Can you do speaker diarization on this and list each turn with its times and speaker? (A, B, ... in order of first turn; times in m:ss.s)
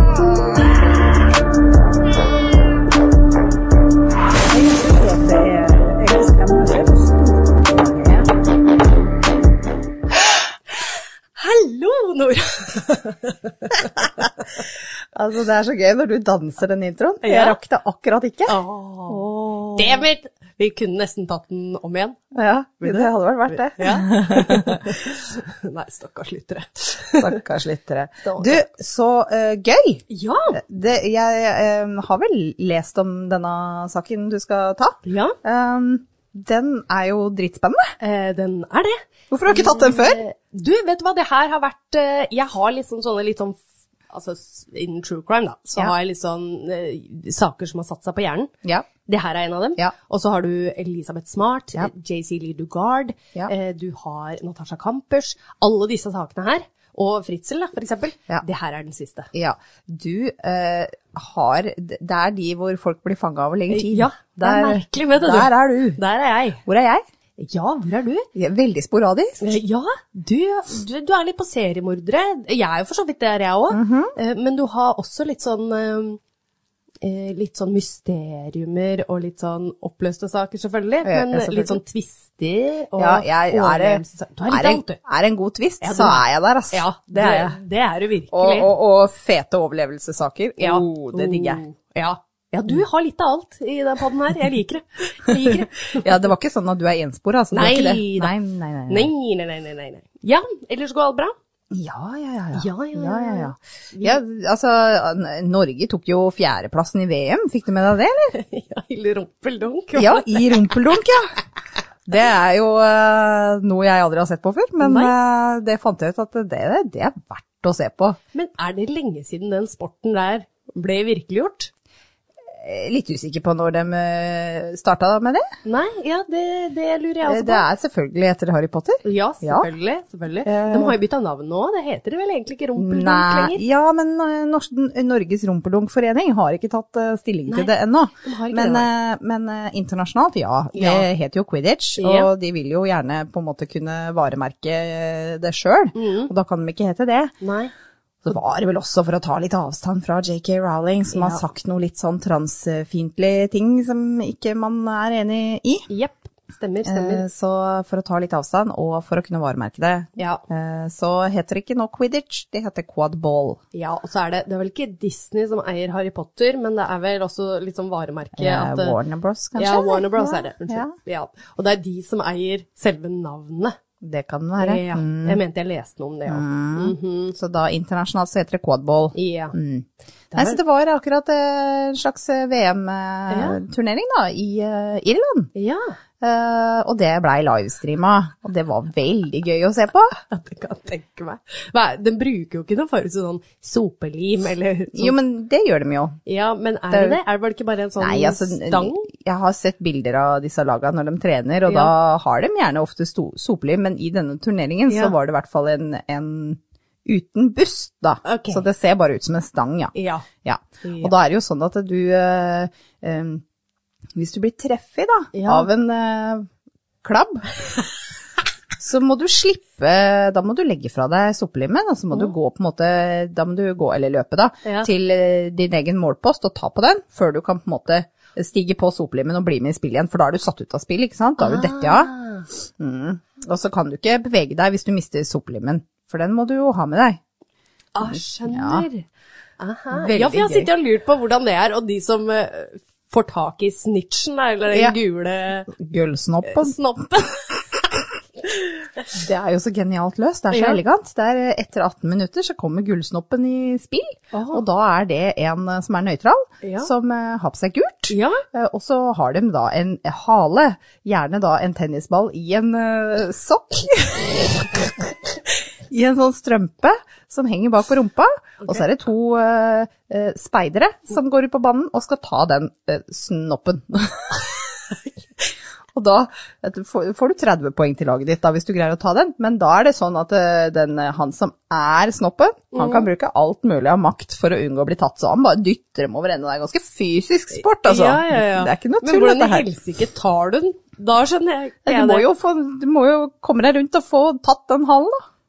0:04.5-0:08.3 A
0:11.4-0:14.1 B
0:15.1-0:18.6 A
0:17.2-0:17.6 B
0:18.5-0:22.2 B
0:19.1-0:20.0 A
0:22.3-0:25.0 A
0:22.8-0:27.4 B
0:27.2-0:37.9 A
0:28.2-0:28.6 B
0:30.1-0:30.6 B
0:35.0-0:35.4 B
0:38.0-0:48.5 B
0:39.3-0:40.2 A
0:49.0-0:59.3 B
0:59.3-1:06.0 A
1:03.7-1:06.6 B
1:06.6-1:07.0 A
1:07.4-1:08.3 B
1:08.4-1:09.6 A
1:09.4-1:16.2 B
1:13.7-1:14.2 A
1:17.0-1:25.0 B
1:21.0-1:21.8 A
1:23.0-1:27.6 A
1:25.8-1:28.7 B
1:28.3-1:31.6 A
1:30.6-1:36.2 B
1:35.3-1:39.1 A
1:37.5-1:38.3 B
1:38.9-1:41.4 B
1:41.7-1:48.4 A
1:42.6-1:44.2 B
1:48.3-1:50.7 B
1:50.0-1:51.4 A
1:52.1-1:58.2 A
1:54.8-1:55.2 B
1:58.3-2:01.7 B
2:02.5-2:05.5 A
2:05.6-2:07.6 B
2:07.3-2:09.7 A
2:09.0-2:13.6 B
2:10.4-2:11.0 A
2:12.8-2:27.3 A
2:18.2-2:18.9 B
2:20.7-2:21.1 B
2:22.0-2:22.3 B
2:25.9-2:26.3 B
2:27.4-2:27.7 B
2:28.2-2:35.9 A
2:31.1-2:31.4 B
2:35.9-2:37.3 B
2:36.8-2:43.6 A
2:40.2-2:40.4 B
2:43.7-2:49.0 B
2:48.4-2:50.9 A
2:49.6-2:53.8 B
2:54.0-2:55.4 A
2:54.6-2:57.3 B
2:56.3-3:05.5 A
2:59.2-2:59.6 B
3:00.3-3:00.6 B
3:03.3-3:03.6 B
3:05.6-3:06.0 B
3:06.2-3:10.1 A
3:10.1-3:15.2 B
3:14.9-3:16.2 A
3:16.3-3:19.1 B
3:16.9-3:17.2 A
3:18.0-3:29.9 A
3:21.7-3:21.9 B
3:24.9-3:25.1 B
3:28.2-3:28.6 B
3:29.9-3:30.2 B
3:30.4-3:33.4 A
3:30.8-3:31.1 B
3:34.2-3:36.5 A
3:35.3-3:35.7 B
3:37.0-3:37.5 A
3:38.8-3:52.1 A
3:51.4-3:52.5 B
3:52.8-3:57.2 A
3:58.0-3:59.1 B
3:58.1-3:58.8 A
3:59.6-4:05.7 B
3:59.9-4:00.7 A
4:04.7-4:05.0 A
4:05.7-4:06.8 A
4:06.4-4:07.6 B
4:09.1-4:25.0 A
4:10.5-4:10.8 B
4:14.3-4:14.6 B
4:16.6-4:16.9 B
4:18.1-4:18.4 B
4:25.9-4:34.6 A
4:35.9-4:49.7 A
4:42.7-4:43.1 B
4:47.8-4:52.3 B
4:51.8-4:55.2 A